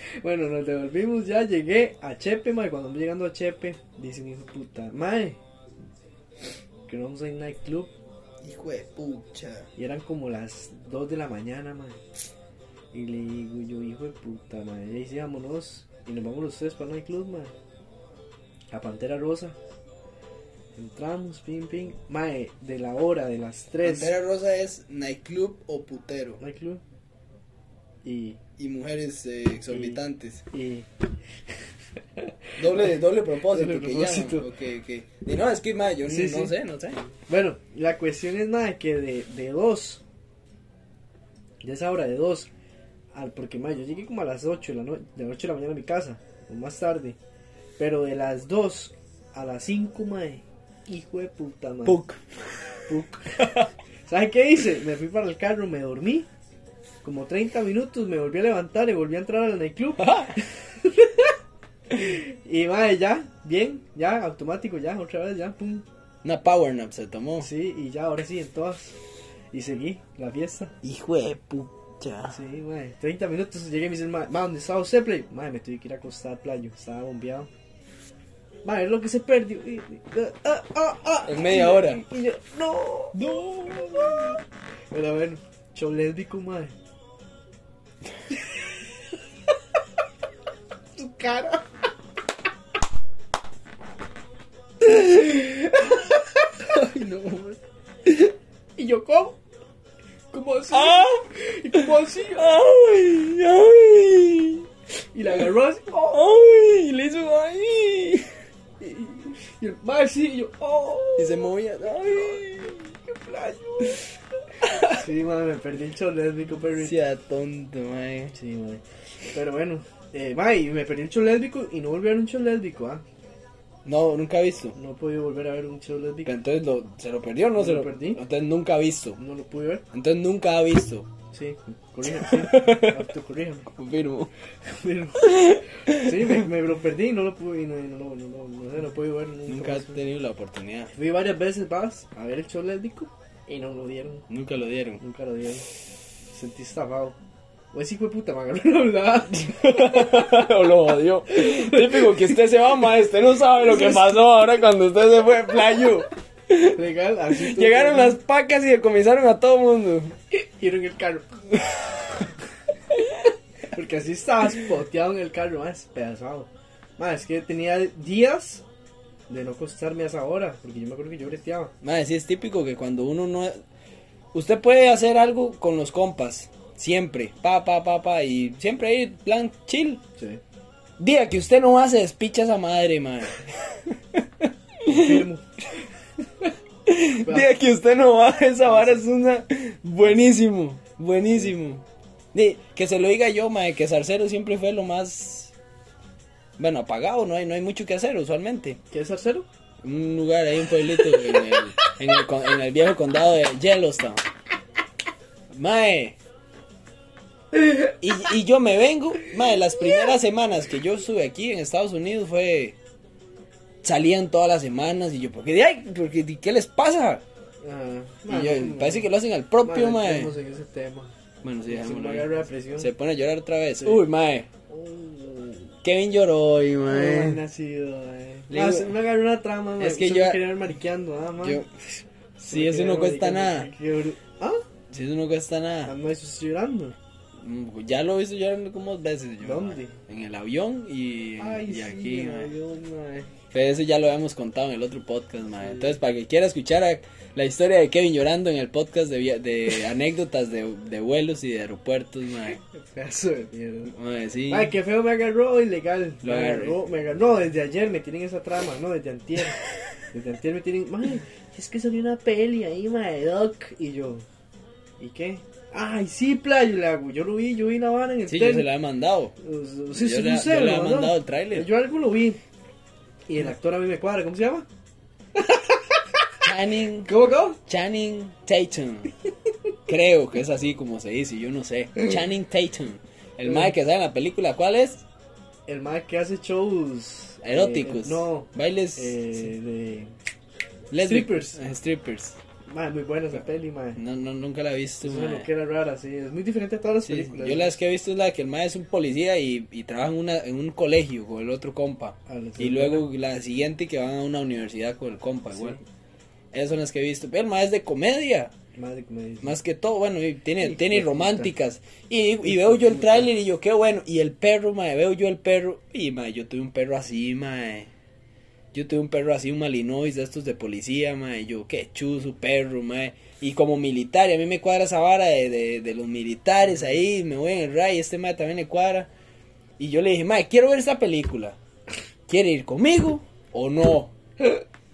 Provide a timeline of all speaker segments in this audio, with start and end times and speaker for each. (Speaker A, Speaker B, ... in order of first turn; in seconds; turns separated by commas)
Speaker A: 0.2-5.4, Speaker A: 6.9-7.9, Speaker B: 8.4-9.7, Speaker A: 9.8-12.0, Speaker A: 12.9-17.5, Speaker A: 18.7-19.6, Speaker A: 20.8-24.1, Speaker B: 23.8-26.4, Speaker A: 26.4-26.8, Speaker A: 28.0-28.4, Speaker B: 28.6-30.4, Speaker A: 29.7-30.9, Speaker A: 32.2-34.5, Speaker B: 32.6-37.0, Speaker A: 36.0-36.5, Speaker A: 37.3-40.0, Speaker A: 41.6-42.5, Speaker A: 43.1-47.2, Speaker A: 47.8-52.0, Speaker B: 51.8-52.2, Speaker A: 52.9-56.3, Speaker A: 57.0-61.3, Speaker B: 60.0-60.3, Speaker A: 61.9-65.8, Speaker B: 66.2-67.5, Speaker A: 67.4-69.0, Speaker A: 69.5-70.7, Speaker B: 70.8-72.3, Speaker A: 72.3-77.5, Speaker A: 78.6-83.2, Speaker B: 81.2-82.0, Speaker B: 83.1-84.4, Speaker A: 83.7-84.4, Speaker A: 84.9-86.7, Speaker A: 91.0-91.6, Speaker A: 94.8-96.7, Speaker B: 96.7-97.5, Speaker A: 98.8-99.4, Speaker A: 100.3-102.5, Speaker B: 100.7-104.7, Speaker A: 105.1-106.2, Speaker B: 106.0-108.3, Speaker A: 108.8-114.0, Speaker B: 111.2-112.8, Speaker B: 114.6-115.0, Speaker A: 114.8-116.9, Speaker B: 116.8-118.3, Speaker A: 118.3-118.8, Speaker A: 119.3-123.0, Speaker B: 123.8-124.7, Speaker A: 124.7-126.3, Speaker B: 126.2-129.2, Speaker A: 127.6-128.2, Speaker A: 129.2-129.8, Speaker B: 129.9-131.1, Speaker A: 131.3-133.7, Speaker B: 132.2-133.1, Speaker B: 133.7-134.3, Speaker A: 134.7-140.0, Speaker B: 135.2-136.3, Speaker B: 139.5-140.9, Speaker A: 140.9-144.2, Speaker B: 144.3-145.0, Speaker A: 145.0-145.7, Speaker A: 146.3-147.2, Speaker A: 147.7-150.5, Speaker B: 149.3-156.8, Speaker A: 151.3-152.4, Speaker A: 153.6-154.2, Speaker A: 156.7-158.2, Speaker B: 157.3-160.1, Speaker A: 160.3-161.6, Speaker A: 163.7-168.6, Speaker A: 169.3-171.7, Speaker B: 171.8-173.6, Speaker B: 174.3-180.0, Speaker B: 181.0-185.2, Speaker A: 184.9-185.4, Speaker B: 186.9-195.5, Speaker A: 187.2-187.5, Speaker A: 188.7-189.0, Speaker B: 196.6-198.8, Speaker A: 198.9-199.4, Speaker B: 199.8-204.2, Speaker B: 205.5-206.2, Speaker B: 208.0-212.8, Speaker B: 213.8-217.2, Speaker A: 217.6-219.1, Speaker B: 218.3-220.3, Speaker A: 219.6-221.1, Speaker B: 221.4-224.5, Speaker A: 221.7-222.9, Speaker A: 224.7-225.7, Speaker B: 225.8-227.4, Speaker A: 226.8-231.6, Speaker B: 228.5-229.0, Speaker B: 229.8-230.5, Speaker B: 231.4-233.7, Speaker A: 232.4-234.6, Speaker B: 234.9-235.9, Speaker A: 235.8-236.9, Speaker B: 237.4-242.5, Speaker A: 239.4-240.0, Speaker A: 241.4-243.3, Speaker B: 243.5-252.6, Speaker A: 245.6-246.0, Speaker A: 252.7-253.9, Speaker B: 253.9-254.7, Speaker A: 254.5-259.6, Speaker B: 256.2-256.8, Speaker A: 260.1-264.2, Speaker A: 265.0-268.7, Speaker B: 268.3-269.3, Speaker A: 269.4-272.4, Speaker B: 269.9-271.7, Speaker A: 273.3-274.7, Speaker A: 275.4-276.2, Speaker B: 276.4-277.1, Speaker A: 277.0-277.6, Speaker B: 277.6-279.1, Speaker B: 279.9-285.0, Speaker A: 283.4-283.7, Speaker A: 285.7-290.1, Speaker B: 287.4-289.4, Speaker B: 290.9-292.4, Speaker A: 291.0-291.6, Speaker A: 292.7-294.0, Speaker B: 294.0-295.4, Speaker A: 295.0-297.8, Speaker B: 297.0-305.8, Speaker A: 302.3-303.1, Speaker A: 305.5-305.8, Speaker B: 306.5-308.5, Speaker A: 308.8-309.5, Speaker B: 309.4-317.9, Speaker A: 310.6-311.5, Speaker A: 312.4-313.3, Speaker B: 318.7-329.1, Speaker A: 326.6-326.9, Speaker B: 329.8-331.6, Speaker B: 332.3-334.1